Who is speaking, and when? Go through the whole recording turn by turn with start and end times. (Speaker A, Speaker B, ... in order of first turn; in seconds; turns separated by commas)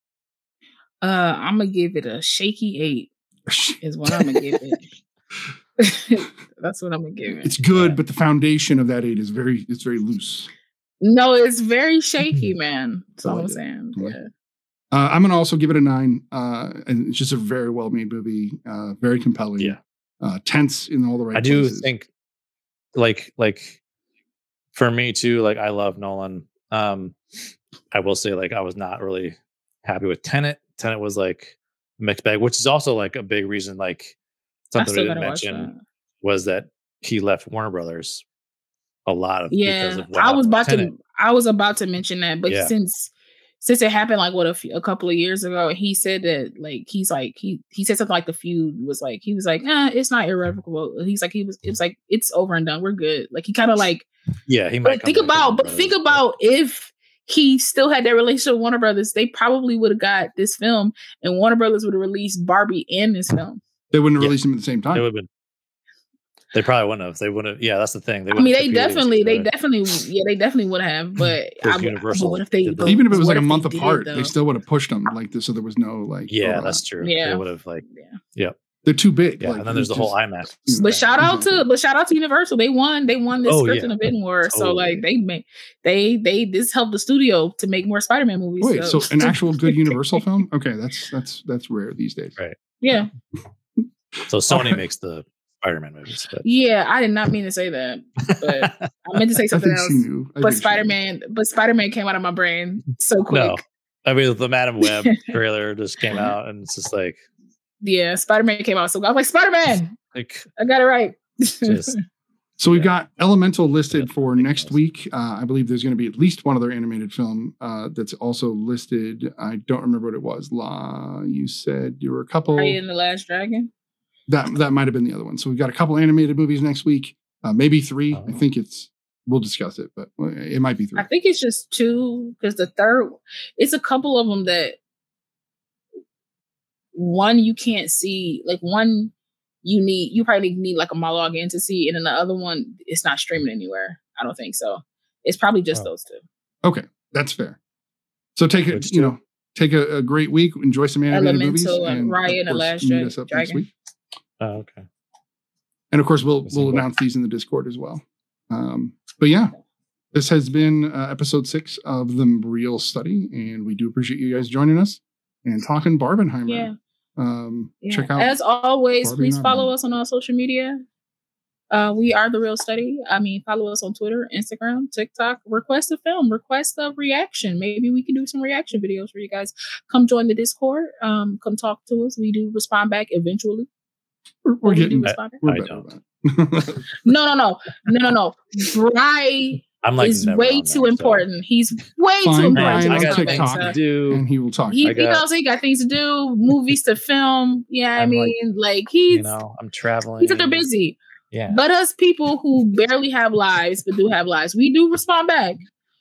Speaker A: 1.0-3.1, Speaker B: 3.5-3.8, Speaker A: 3.8-4.8, Speaker A: 5.8-7.5, Speaker B: 7.4-10.5, Speaker A: 11.0-14.3, Speaker B: 13.2-14.2, Speaker B: 14.9-21.9, Speaker C: 21.3-22.1, Speaker C: 22.9-23.8, Speaker C: 24.7-27.1, Speaker C: 27.9-34.1, Speaker C: 34.7-35.7, Speaker A: 34.8-35.8, Speaker C: 36.2-38.2, Speaker C: 39.0-40.9, Speaker A: 39.5-43.1, Speaker C: 42.5-42.7, Speaker A: 43.6-54.1, Speaker C: 54.5-56.2, Speaker A: 54.8-63.6, Speaker B: 63.9-65.0, Speaker C: 64.9-65.3, Speaker C: 66.5-69.5, Speaker A: 68.3-74.3, Speaker C: 71.6-73.0, Speaker B: 72.8-76.8, Speaker C: 76.3-77.8, Speaker A: 77.0-78.2, Speaker B: 78.8-81.7, Speaker C: 79.4-81.1, Speaker A: 80.8-90.2, Speaker C: 83.5-84.0, Speaker C: 84.5-85.0, Speaker B: 88.6-92.4, Speaker A: 92.8-93.1, Speaker C: 94.3-96.5, Speaker B: 94.5-94.8, Speaker A: 96.4-103.6, Speaker C: 98.3-99.2, Speaker B: 99.5-100.9, Speaker C: 103.3-107.2, Speaker A: 104.8-105.3, Speaker A: 107.8-110.0, Speaker C: 110.1-110.5, Speaker A: 110.6-112.0, Speaker C: 111.6-112.0, Speaker B: 112.6-122.8, Speaker C: 113.9-114.8, Speaker A: 122.5-123.7, Speaker B: 124.3-131.1, Speaker C: 128.1-128.4, Speaker A: 130.9-134.8, Speaker A: 136.9-139.1, Speaker A: 139.6-146.2, Speaker B: 146.6-147.6, Speaker B: 148.3-153.7, Speaker C: 148.7-149.1, Speaker A: 151.1-153.6, Speaker C: 154.4-154.8, Speaker B: 155.9-159.5, Speaker C: 156.4-156.9, Speaker B: 160.1-168.3, Speaker A: 166.5-166.8, Speaker A: 167.8-170.8, Speaker B: 169.0-169.7, Speaker A: 171.7-183.7, Speaker B: 184.4-186.9, Speaker A: 184.6-185.4, Speaker C: 185.0-185.9, Speaker A: 187.0-193.8, Speaker C: 189.8-191.3, Speaker B: 192.2-194.9, Speaker C: 192.5-194.2, Speaker A: 194.7-199.3, Speaker C: 194.8-195.2, Speaker C: 198.0-198.3, Speaker C: 199.1-200.7, Speaker A: 200.2-201.0, Speaker C: 201.3-201.6, Speaker A: 201.5-205.6